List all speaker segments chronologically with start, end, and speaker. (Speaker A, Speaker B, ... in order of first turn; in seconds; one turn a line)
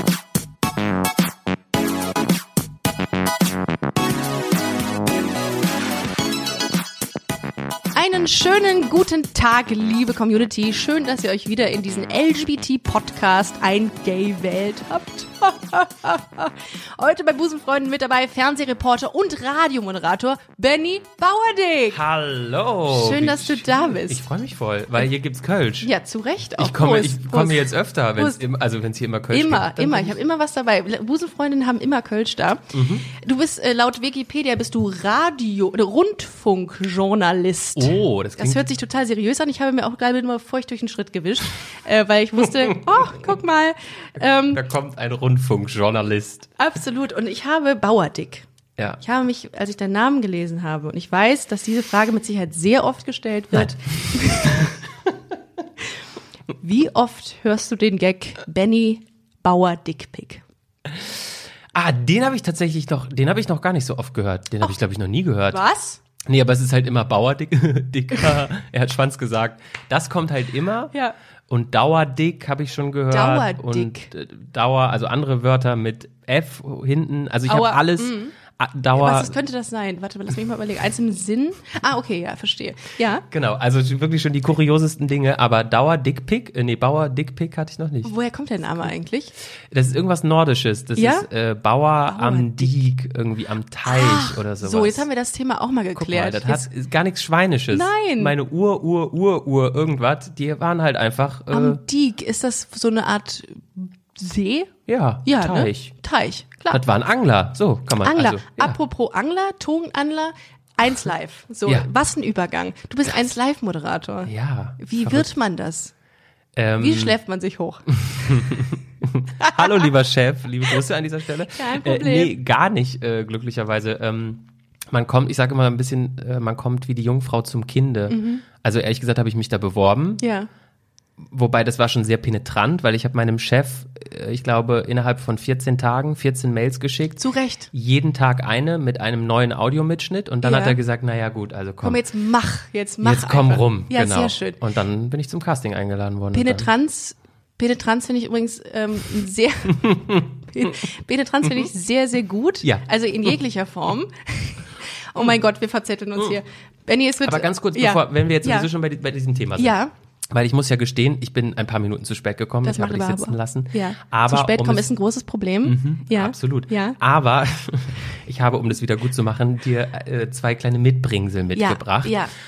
Speaker A: 7.9-22.0
Speaker B: 21.9-25.9
Speaker A: 22.9-24.2
Speaker A: 25.8-28.4
Speaker B: 26.6-30.2
Speaker A: 29.3-44.6
Speaker B: 32.7-33.1
Speaker B: 37.8-38.6
Speaker B: 42.6-43.3
Speaker B: 44.5-46.5
Speaker A: 46.6-48.5
Speaker A: 49.0-54.8
Speaker B: 54.2-54.7
Speaker A: 56.6-60.4
Speaker B: 61.7-65.6
Speaker A: 65.5-66.0
Speaker B: 66.2-70.9
Speaker B: 71.5-79.3
Speaker A: 73.1-74.1
Speaker A: 77.5-78.3
Speaker A: 78.9-83.2
Speaker B: 83.3-88.1
Speaker A: 88.0-89.3
Speaker B: 89.7-95.0
Speaker A: 91.0-91.3
Speaker A: 92.1-92.8
Speaker A: 93.9-96.7
Speaker B: 95.9-101.8
Speaker A: 97.7-98.3
Speaker A: 101.5-104.7
Speaker B: 104.9-105.9
Speaker A: 105.2-106.8
Speaker B: 106.7-108.8
Speaker A: 108.0-115.9
Speaker B: 114.3-115.3
Speaker B: 116.5-117.1
Speaker A: 116.8-118.5
Speaker B: 118.1-130.2
Speaker A: 121.5-122.3
Speaker A: 128.1-128.4
Speaker A: 130.2-130.5
Speaker B: 131.2-142.0
Speaker A: 137.2-137.7
Speaker A: 140.4-140.8
Speaker A: 141.8-144.6
Speaker B: 143.0-146.7
Speaker A: 146.3-158.7
Speaker B: 149.8-150.3
Speaker B: 157.2-159.8
Speaker A: 159.6-159.9
Speaker B: 160.3-164.9
Speaker A: 162.6-167.0
Speaker B: 165.6-172.2
Speaker A: 171.5-172.3